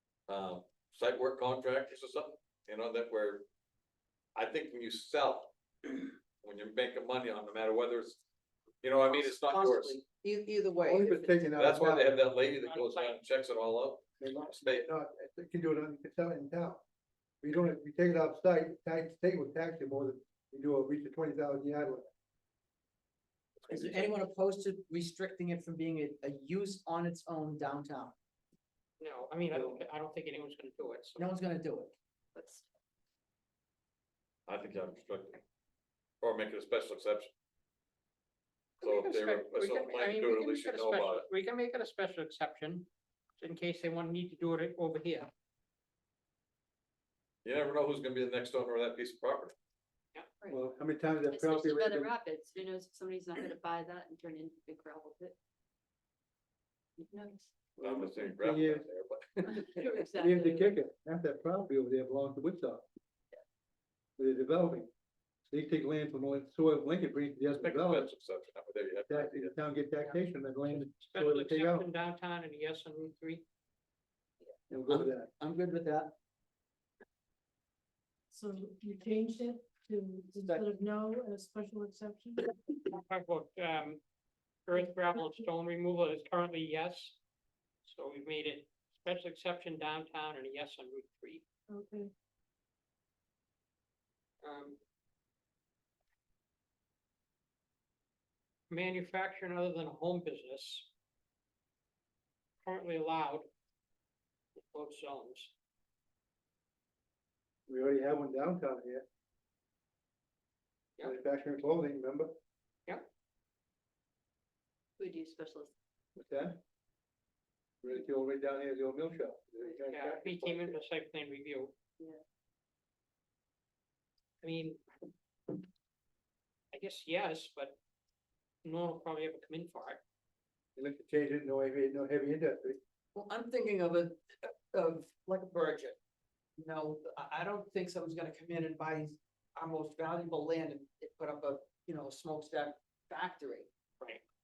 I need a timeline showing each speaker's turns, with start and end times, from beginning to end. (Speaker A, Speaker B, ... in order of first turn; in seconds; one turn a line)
Speaker A: 0.3-3.4
Speaker A: 4.3-8.2
Speaker A: 8.8-10.0
Speaker B: 9.1-11.5
Speaker C: 10.8-12.1
Speaker A: 11.6-14.8
Speaker D: 12.6-13.2
Speaker C: 14.2-16.8
Speaker C: 17.4-22.1
Speaker C: 23.6-24.1
Speaker B: 23.7-28.1
Speaker D: 29.0-31.3
Speaker C: 29.5-29.8
Speaker B: 31.2-31.9
Speaker E: 32.3-32.7
Speaker A: 34.5-35.4
Speaker A: 36.2-37.3
Speaker D: 38.8-42.9
Speaker A: 38.8-41.3
Speaker D: 43.4-45.3
Speaker A: 47.4-49.5
Speaker E: 50.4-55.4
Speaker C: 50.5-52.1
Speaker E: 57.0-57.7
Speaker C: 57.8-58.8
Speaker A: 57.8-59.4
Speaker E: 59.4-60.8
Speaker C: 59.5-62.9
Speaker C: 64.2-64.9
Speaker C: 65.5-68.1
Speaker A: 67.6-69.5
Speaker C: 69.1-71.8
Speaker D: 70.0-73.4
Speaker C: 74.7-75.3
Speaker B: 74.9-76.1
Speaker F: 78.3-82.5
Speaker D: 82.8-84.0
Speaker D: 84.7-87.2
Speaker F: 84.8-85.5
Speaker D: 87.8-91.4
Speaker F: 91.7-92.1
Speaker D: 94.4-94.8
Speaker D: 98.7-100.9
Speaker D: 102.6-103.5
Speaker D: 104.5-105.5
Speaker C: 107.7-109.0
Speaker C: 111.0-112.3
Speaker E: 115.0-115.7
Speaker C: 116.2-116.6
Speaker C: 117.8-120.8
Speaker D: 119.9-121.7
Speaker D: 124.4-124.8
Speaker D: 126.7-127.8
Speaker D: 128.6-130.0
Speaker C: 130.8-132.8
Speaker B: 133.1-136.0
Speaker B: 136.6-143.7